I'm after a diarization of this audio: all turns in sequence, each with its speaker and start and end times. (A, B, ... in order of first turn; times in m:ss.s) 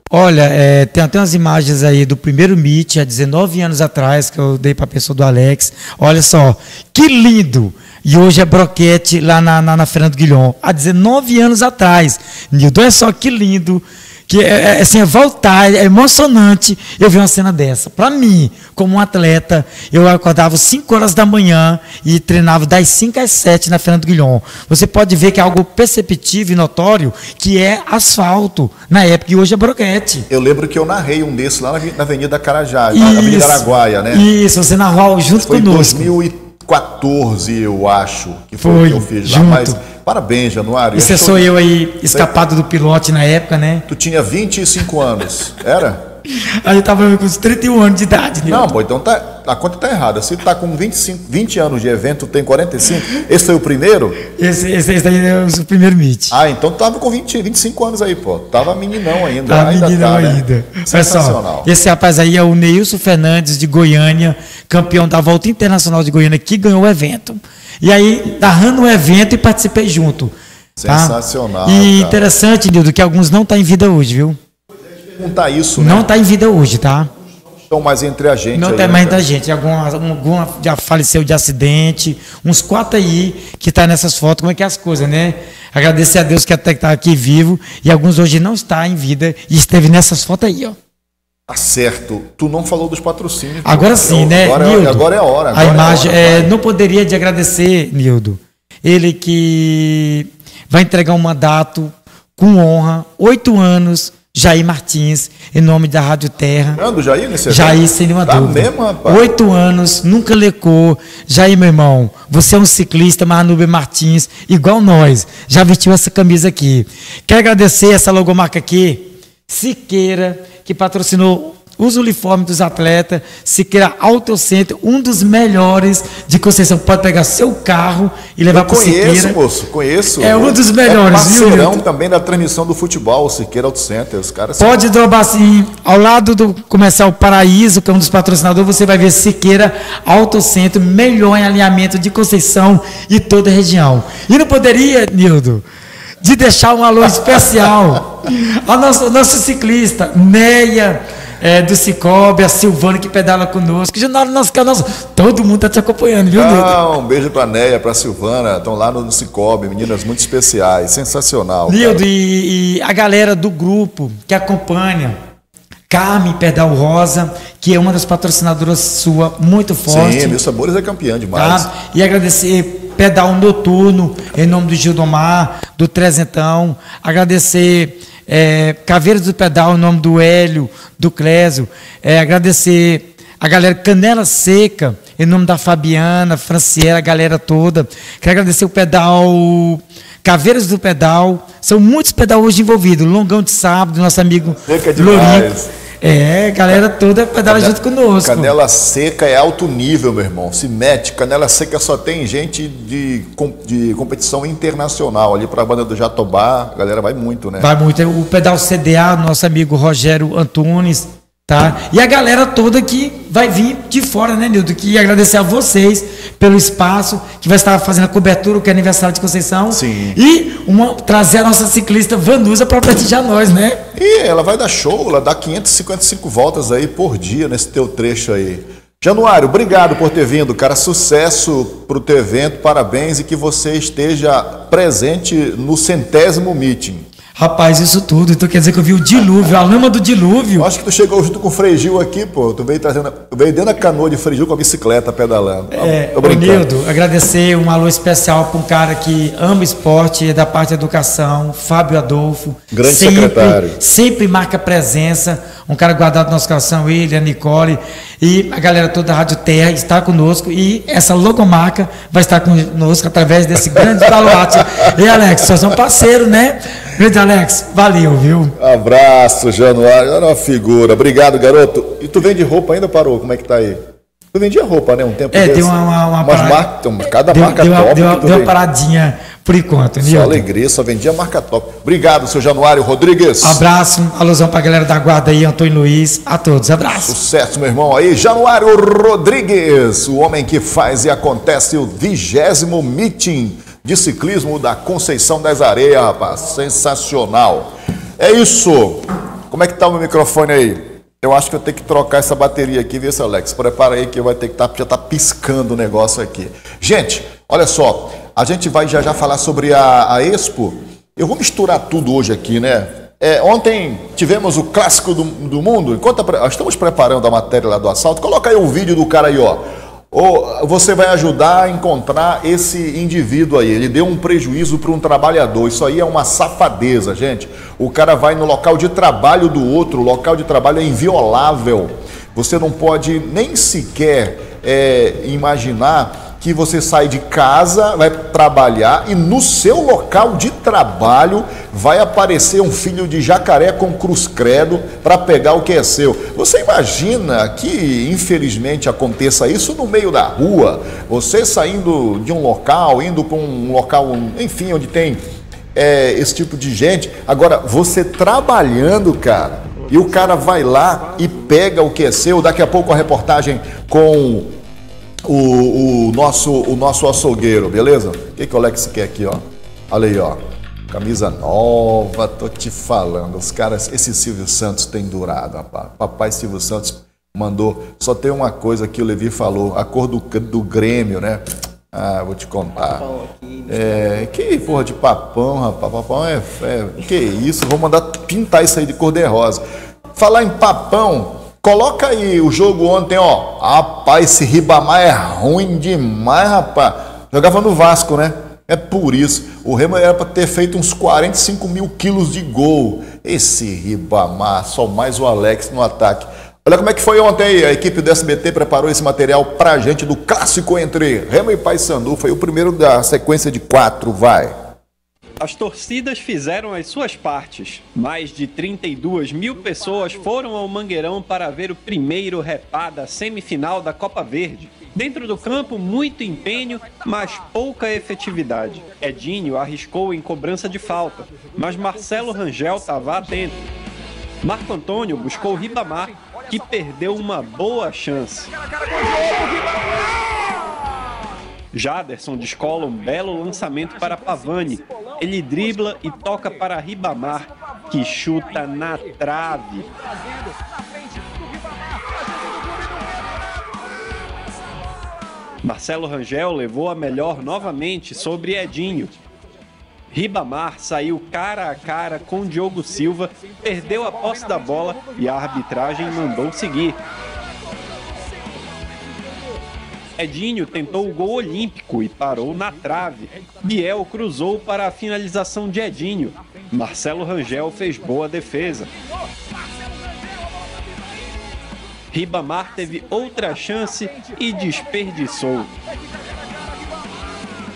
0:00.1-0:30.2 A
0:30.3-0:34.2 B
0:32.9-0:36.1 A
0:35.4-0:41.5 B
0:38.6-0:39.8 A
0:40.9-0:43.8 A
0:42.1-0:42.4 B
0:43.9-0:46.1 B
0:46.6-0:48.7 A
0:48.4-0:54.2 B
0:54.3-0:56.4 A
0:56.3-1:01.7 B
0:59.4-1:10.3 A
1:10.8-1:12.2 B
1:10.9-1:14.4 A
1:15.0-1:16.1 B
1:15.8-1:17.1 A
1:17.7-1:19.2 B
1:18.5-1:30.8 A
1:31.5-1:36.5 B
1:33.6-1:46.8 A
1:46.7-1:49.3 B
1:47.5-2:09.4 A
2:08.5-2:14.8 B
2:10.2-2:11.8 A
2:14.6-2:25.6 A
2:26.2-2:36.8 A
2:36.3-2:42.0 B
2:41.7-2:45.2 A
2:45.9-2:50.4 A
2:49.9-2:51.7 B
2:51.3-3:15.5 A
3:14.7-3:15.7 B
3:16.0-3:18.5 A
3:17.5-3:27.7 B
3:27.6-3:43.8 A
3:39.7-3:40.2 B
3:43.9-3:57.1 B
3:57.4-4:00.7 A
4:00.6-4:06.7 B
4:05.7-4:28.5 A
4:12.7-4:13.8 B
4:23.8-4:25.2 B
4:28.6-4:33.8 B
4:34.3-4:38.5 B
4:35.3-4:36.6 A
4:37.3-4:40.4 A
4:40.0-4:43.6 B
4:43.4-4:47.2 A
4:47.1-5:55.2 B
5:55.7-6:04.5 B
6:05.2-6:23.1 B
6:23.6-6:29.6 B
6:30.1-6:54.5 B
6:55.4-7:13.6 C
7:14.4-7:18.5 C
7:21.7-7:29.9 C
7:35.6-7:39.1 C
7:40.1-7:47.0 C
7:50.2-7:58.9 C
8:02.1-8:05.7 C